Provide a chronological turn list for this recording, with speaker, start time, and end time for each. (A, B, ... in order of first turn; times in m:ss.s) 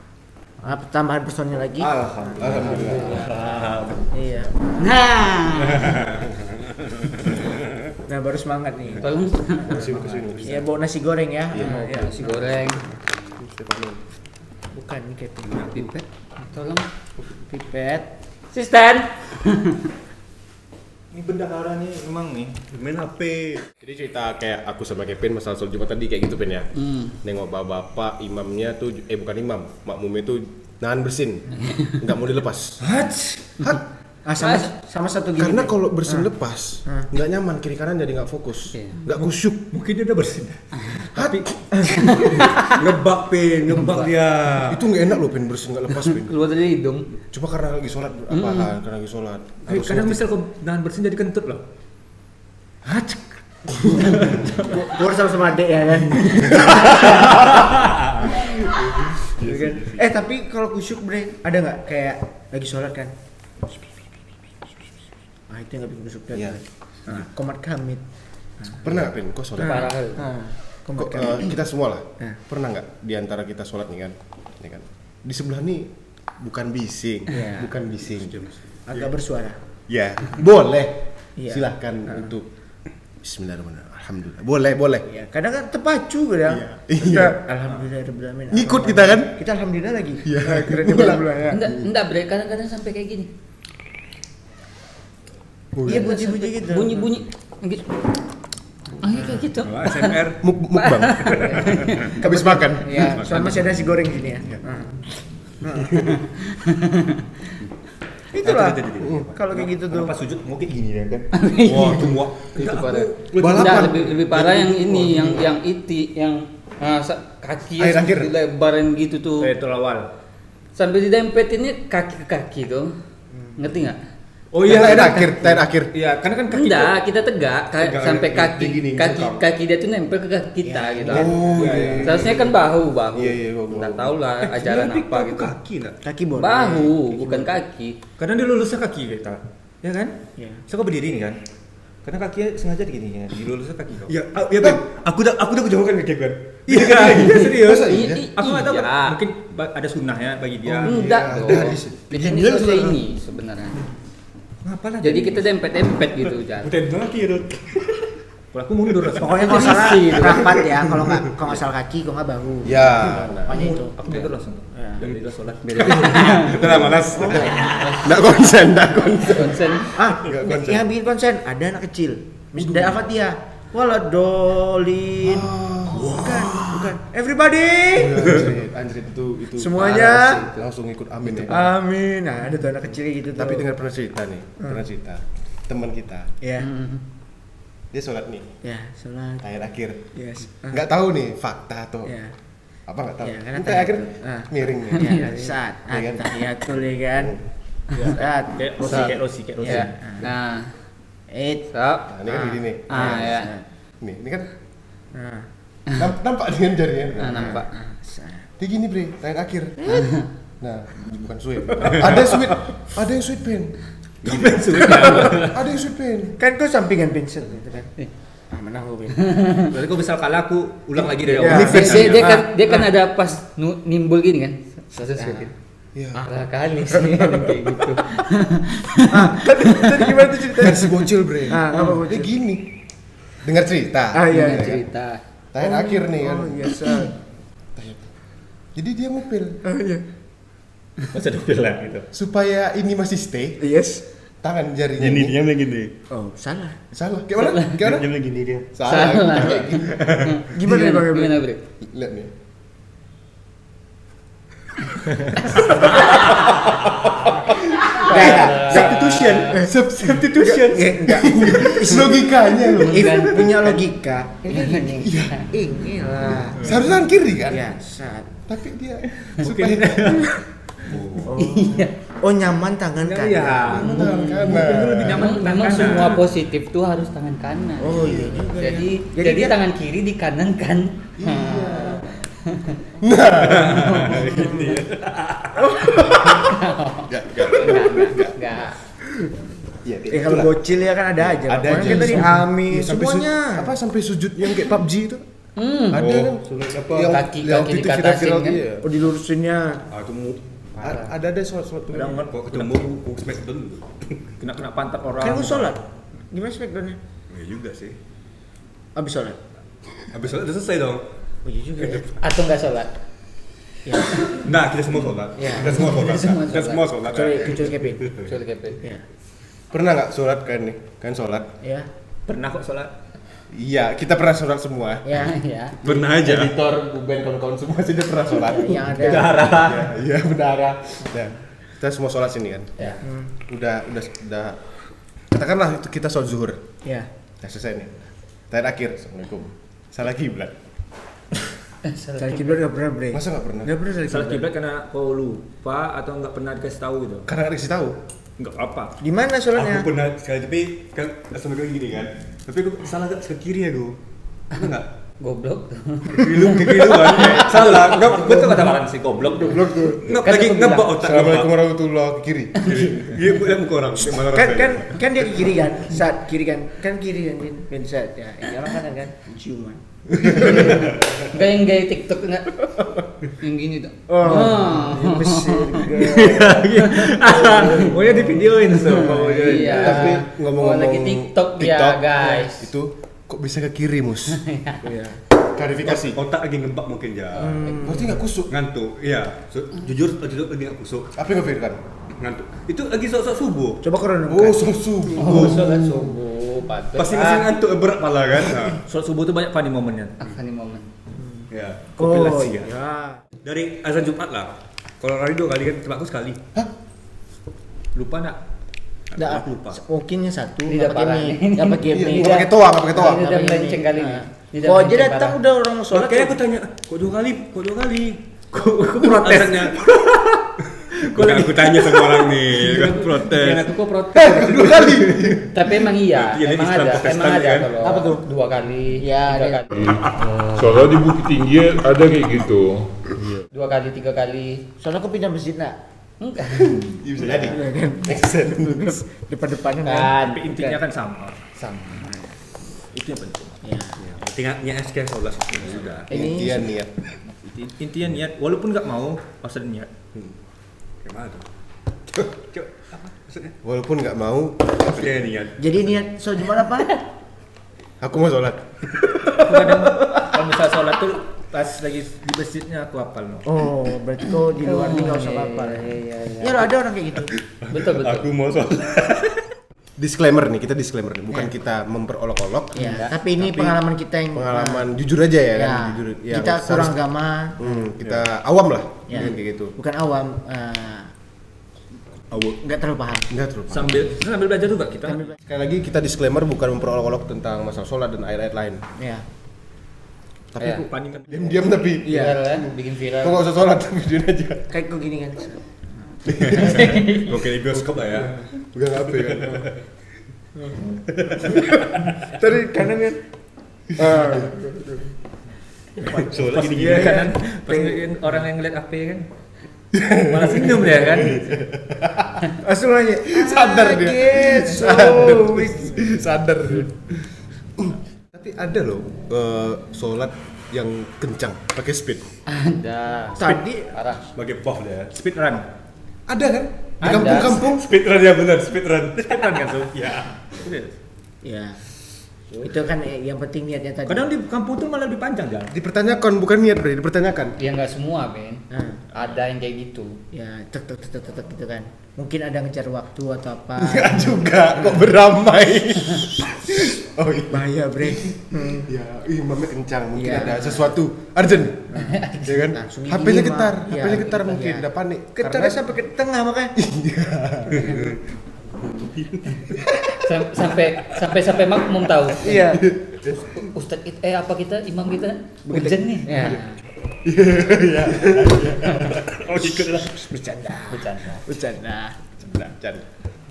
0:00.6-0:03.1 A
0:01.8-0:03.7 B
0:02.4-0:03.2 C
0:03.1-0:04.0 D
0:04.1-0:05.4 A
0:04.8-0:05.8 E
0:05.7-0:06.3 D
0:06.9-0:07.4 D
0:08.1-0:09.1 A
0:09.0-0:09.7 E
0:09.6-0:10.5 B
0:09.7-0:10.6 C
0:10.4-0:13.0 A
0:11.5-0:11.8 C
0:11.6-0:12.8 E
0:13.4-0:14.0 C
0:14.7-0:15.7 A
0:15.7-0:16.9 E
0:17.3-0:18.1 A
0:18.5-0:19.8 E
0:21.1-0:22.6 B
0:22.7-0:23.6 D
0:23.8-0:32.8 C
0:26.8-0:27.1 E
0:32.8-0:33.5 B
0:34.2-0:36.3 A
0:34.4-0:34.6 E
0:35.4-0:39.6 C
0:39.1-0:42.2 B
0:41.1-0:41.5 C
0:42.6-0:44.8 D
0:44.6-0:46.3 C
0:46.1-0:47.1 E
0:47.3-0:50.2 C
0:48.3-0:48.7 E
0:49.7-0:51.6 B
0:52.9-0:53.2 B
0:53.9-0:54.2 C
0:54.2-0:54.8 B
0:54.6-0:56.9 A
0:57.3-0:58.3 D
0:59.2-1:00.0 D
0:59.4-1:03.1 A
1:05.5-1:08.0 A
1:06.3-1:06.6 C
1:08.6-1:08.9 A
1:08.8-1:09.9 C
1:09.6-1:11.6 A
1:09.6-1:10.2 E
1:10.9-1:18.4 C
1:17.3-1:17.7 A
1:18.2-1:19.1 D
1:18.9-1:19.6 A
1:19.9-1:20.2 D
1:19.9-1:22.5 C
1:21.4-1:22.3 A
1:23.2-1:25.1 C
1:25.1-1:31.6 A
1:26.8-1:27.4 C
1:28.5-1:29.3 C
1:30.2-1:31.8 C
1:31.5-1:33.3 E
1:35.8-1:36.0 C
1:35.8-1:37.1 A
1:35.9-1:37.9 E
1:39.0-1:40.2 E
1:39.1-1:39.4 A
1:39.6-1:40.4 D
1:40.4-1:41.6 C
1:40.8-1:42.1 E
1:41.4-1:46.2 A
1:41.6-1:42.1 D
1:42.2-1:43.3 C
1:42.8-1:43.2 E
1:43.0-1:43.8 D
1:48.3-1:50.1 A
1:48.4-1:49.4 D
1:49.5-1:51.3 B
1:51.3-1:59.5 E
1:51.6-1:54.0 D
1:53.4-1:55.4 C
1:57.8-1:58.3 C
1:59.4-2:00.1 B
2:00.8-2:02.9 E
2:03.3-2:03.6 A
2:03.6-2:04.0 E
2:04.5-2:06.9 B
2:04.6-2:05.9 C
2:06.5-2:11.4 E
2:07.8-2:09.4 D
2:10.6-2:12.0 A
2:11.1-2:12.4 C
2:11.5-2:12.2 B
2:12.0-2:15.5 E
2:13.1-2:14.1 C
2:14.4-2:16.0 D
2:16.0-2:17.5 A
2:16.3-2:18.0 E
2:18.2-2:20.1 B
2:20.7-2:21.4 B
2:22.0-2:24.1 B
2:24.1-2:27.6 D
2:26.7-2:30.9 B
2:27.2-2:29.0 E
2:27.5-2:28.2 C
2:30.7-2:33.0 C
2:30.8-2:33.8 E
2:34.6-2:35.4 B
2:35.0-2:36.7 E
2:36.6-2:38.1 D
2:38.5-2:40.3 B
2:39.0-2:40.6 D
2:39.3-2:45.0 A
2:39.5-2:40.4 E
2:42.6-2:43.7 C
2:43.5-2:46.5 B
2:45.0-2:47.8 D
2:45.8-2:50.8 C
2:46.7-2:48.2 A
2:47.8-2:48.1 E
2:49.2-2:49.9 E
2:49.9-2:58.4 A
2:52.6-2:53.0 C
2:55.2-2:56.2 C
2:56.2-2:56.6 D
2:57.9-2:59.0 C
2:58.9-2:59.6 D
2:59.5-3:00.5 A
2:59.9-3:00.3 E
3:00.5-3:01.7 C
3:01.5-3:03.6 A
3:03.4-3:06.3 C
3:06.4-3:06.7 A
3:06.6-3:07.0 E
3:07.9-3:08.5 C
3:08.6-3:09.4 A
3:09.4-3:10.0 C
3:10.1-3:10.8 A
3:10.7-3:12.2 C
3:12.0-3:12.3 A
3:12.9-3:15.4 C
3:13.2-3:17.4 A
3:15.0-3:15.4 E
3:15.9-3:17.4 C
3:18.0-3:20.3 A
3:18.6-3:19.9 B
3:18.8-3:20.7 E
3:21.3-3:21.7 A
3:21.7-3:22.1 E
3:22.1-3:23.4 C
3:22.2-3:23.6 A
3:22.9-3:23.5 E
3:24.0-3:24.5 C
3:25.1-3:25.5 A
3:25.9-3:27.6 C
3:27.2-3:27.7 E
3:27.3-3:28.5 A
3:28.6-3:30.1 C
3:29.8-3:30.2 A
3:30.6-3:36.4 C
3:34.2-3:35.3 D
3:34.2-3:35.6 B
3:36.4-3:37.9 A
3:38.5-3:39.6 A
3:39.4-3:39.7 E
3:39.7-3:42.5 B
3:41.3-3:45.5 E
3:41.4-3:42.0 A
3:41.4-3:42.3 C
3:41.8-3:42.1 D
3:45.1-3:45.5 A
3:45.9-3:46.2 C
3:46.1-3:49.1 E
3:47.0-3:47.5 A
3:49.1-3:50.9 A
3:49.3-3:52.7 C
3:51.4-3:52.3 A
3:53.4-3:54.8 C
3:54.1-3:54.8 A
3:54.3-3:55.2 E
3:55.5-3:56.9 C
3:55.6-3:57.1 A
3:57.8-3:58.1 C
3:58.7-3:59.6 C
3:59.6-4:00.0 A
4:01.1-4:02.1 B
4:02.1-4:03.6 C
4:03.6-4:04.0 A
4:04.4-4:05.4 C
4:05.0-4:05.9 D
4:06.1-4:06.8 A
4:06.9-4:08.1 C
4:07.8-4:08.6 D
4:08.7-4:10.0 C
4:08.8-4:11.6 E
4:09.8-4:10.5 D
4:10.5-4:11.4 A
4:11.8-4:12.3 C
4:17.8-4:23.8 C
4:18.0-4:19.6 E
4:18.0-4:19.0 A
4:18.2-4:19.5 D
4:20.2-4:26.9 A
4:20.4-4:20.9 D
4:24.5-4:25.4 E
4:25.0-4:25.4 C
4:26.6-4:27.7 C
4:27.4-4:28.3 A
4:28.5-4:30.3 C
4:29.3-4:30.4 B
4:30.8-4:31.3 D
4:31.3-4:33.8 A
4:31.4-4:31.9 E
4:33.0-4:36.2 B
4:33.7-4:35.2 C
4:33.8-4:42.8 E
4:37.8-4:39.6 A
4:38.0-4:38.4 C
4:41.2-4:42.0 C
4:43.0-4:44.4 C
4:43.4-4:45.8 D
4:44.1-4:44.8 A
4:45.6-4:46.2 A
4:45.9-4:46.5 C
4:46.5-4:48.8 E
4:47.1-4:48.3 D
4:47.3-4:48.1 C
4:49.8-4:50.5 C
4:50.0-4:50.5 D
4:50.1-4:53.7 A
4:51.5-4:55.2 C
4:51.8-4:52.2 E
4:55.6-4:56.0 E
4:55.9-4:58.9 C
4:55.9-4:57.2 D
4:57.1-4:58.6 E
4:58.8-4:59.8 A
4:59.9-5:00.9 D
5:00.8-5:02.2 C
5:01.9-5:03.0 B
5:02.1-5:04.3 D
5:04.4-5:05.8 B
5:05.2-5:07.0 A
5:07.3-5:08.0 D
5:08.9-5:09.4 A
5:10.1-5:11.0 D
5:11.4-5:12.1 A
5:12.2-5:12.9 E
5:13.8-5:14.3 A
5:14.2-5:18.3 D
5:15.4-5:15.8 A
5:15.6-5:16.9 E
5:17.0-5:18.2 A
5:18.2-5:18.8 E
5:19.7-5:21.5 C
5:21.6-5:21.9 A
5:22.3-5:22.9 B
5:23.5-5:25.3 C
5:25.0-5:25.4 A
5:25.2-5:25.8 E
5:25.8-5:26.6 D
5:25.8-5:34.6 C
5:28.4-5:29.4 A
5:29.0-5:29.9 B
5:33.0-5:33.3 A
5:35.3-5:36.6 C
5:36.8-5:37.1 A
5:37.4-5:40.6 C
5:41.8-5:42.6 E
5:42.2-5:44.5 A
5:43.1-5:43.7 C
5:44.0-5:47.3 B
5:47.2-5:48.0 C
5:48.4-5:49.0 B
5:49.0-5:49.9 A
5:49.5-5:53.9 D
5:54.5-5:54.9 D
5:55.2-5:56.8 E
5:56.1-5:58.7 D
5:56.9-5:59.6 B
5:59.4-6:00.0 A
5:59.5-6:00.0 C
6:00.0-6:01.5 D
6:00.2-6:00.9 E
6:01.0-6:02.9 C
6:02.6-6:05.0 D
6:04.2-6:10.8 A
6:10.3-6:12.7 E
6:10.7-6:11.2 D
6:13.4-6:16.1 E
6:14.1-6:16.7 A
6:16.0-6:19.9 B
6:16.8-6:17.1 E
6:17.3-6:18.2 C
6:18.7-6:22.7 E
6:18.8-6:24.4 C
6:24.4-6:24.8 E
6:24.8-6:25.2 A
6:25.5-6:26.2 C
6:25.8-6:27.8 D
6:27.4-6:28.3 A
6:27.6-6:28.5 C
6:28.5-6:31.1 D
6:31.2-6:31.8 C
6:32.1-6:33.8 D
6:33.8-6:34.7 A
6:34.3-6:36.1 C
6:35.2-6:37.5 E
6:35.2-6:35.6 D
6:36.9-6:38.8 D
6:38.8-6:40.3 B
6:40.2-6:40.9 E
6:41.1-6:43.2 A
6:41.5-6:41.9 D
6:42.0-6:42.7 B
6:43.4-6:46.4 D
6:47.9-6:48.4 B
6:49.1-6:49.8 D
6:49.2-6:56.4 A
6:50.7-6:55.4 E
6:51.8-6:53.3 C
6:55.9-6:59.8 D
6:58.6-7:00.4 B
7:00.9-7:03.7 D
7:01.1-7:05.4 B
7:04.1-7:05.4 C
7:05.5-7:09.8 E
7:06.0-7:07.7 D
7:07.8-7:08.2 A
7:09.0-7:09.8 A
7:09.7-7:13.0 F
7:13.5-7:14.6 E
7:14.8-7:15.8 A
7:16.2-7:16.7 E
7:16.9-7:19.0 C
7:17.1-7:17.6 D
7:17.5-7:20.8 A
7:19.8-7:20.4 E
7:20.2-7:21.4 B
7:21.6-7:22.1 E
7:21.9-7:22.4 A
7:22.9-7:23.6 B
7:23.6-7:24.0 A
7:24.0-7:26.1 D
7:25.6-7:26.0 B
7:26.1-7:26.7 A
7:26.1-7:26.9 C
7:27.4-7:29.9 B
7:31.0-7:31.5 D
7:32.1-7:33.5 D
7:33.6-7:35.2 C
7:34.8-7:35.8 D
7:35.6-7:37.0 A
7:38.0-7:39.7 C
7:39.4-7:43.6 B
7:43.4-7:47.3 A
7:44.6-7:46.7 E
7:47.4-7:49.4 D
7:47.7-7:48.3 E
7:50.0-7:52.7 C
7:52.7-7:53.1 E
7:52.7-7:54.9 A
7:53.4-7:53.8 C
7:54.3-7:57.0 C
7:55.5-7:57.9 A
7:57.6-7:59.7 C
7:59.1-8:01.1 A
8:02.3-8:02.6 D
8:02.6-8:03.3 A
8:03.3-8:04.1 C
8:03.7-8:05.3 B
8:05.1-8:05.4 A
8:05.4-8:08.8 C
8:09.0-8:09.2 A
8:10.5-8:14.7 C
8:10.6-8:10.8 E
8:10.7-8:11.7 B
8:12.0-8:13.4 E
8:12.0-8:12.3 A
8:14.7-8:16.3 A
8:16.3-8:19.7 C
8:16.6-8:18.4 D
8:16.6-8:17.3 E
8:19.1-8:19.8 D
8:20.8-8:21.0 B
8:21.1-8:22.1 D
8:22.3-8:23.2 A
8:23.9-8:25.1 A
8:26.0-8:27.3 D
8:26.0-8:29.2 B
8:26.6-8:28.1 A
8:29.9-8:32.4 C
8:30.2-8:31.4 B
8:32.6-8:36.1 A
8:33.1-8:37.2 C
8:37.8-8:42.3 C
8:42.5-8:44.2 E
8:43.4-8:43.9 A
8:44.3-8:45.4 D
8:45.2-8:45.6 B
8:46.3-8:47.8 C
8:47.0-8:47.6 E
8:47.2-8:50.3 D
8:49.3-8:51.0 B
8:51.4-8:51.8 A
8:52.5-8:54.3 A
8:54.1-8:55.7 B
8:55.7-8:57.5 C
8:57.6-9:00.2 E
8:58.7-8:59.0 A
9:00.3-9:04.3 A
9:03.8-9:15.8 C
9:07.5-9:08.9 A
9:10.1-9:10.9 A
9:11.9-9:14.8 A
9:12.0-9:12.4 E
9:15.4-9:16.7 A
9:16.8-9:18.1 C
9:17.8-9:18.1 D
9:19.1-9:19.7 D
9:20.2-9:22.7 E
9:22.4-9:22.8 A
9:22.5-9:23.4 C
9:23.5-9:26.6 E
9:25.7-9:26.8 A
9:27.2-9:30.1 C
9:27.8-9:30.2 D
9:30.0-9:32.3 A
9:30.9-9:31.4 E
9:32.5-9:33.1 C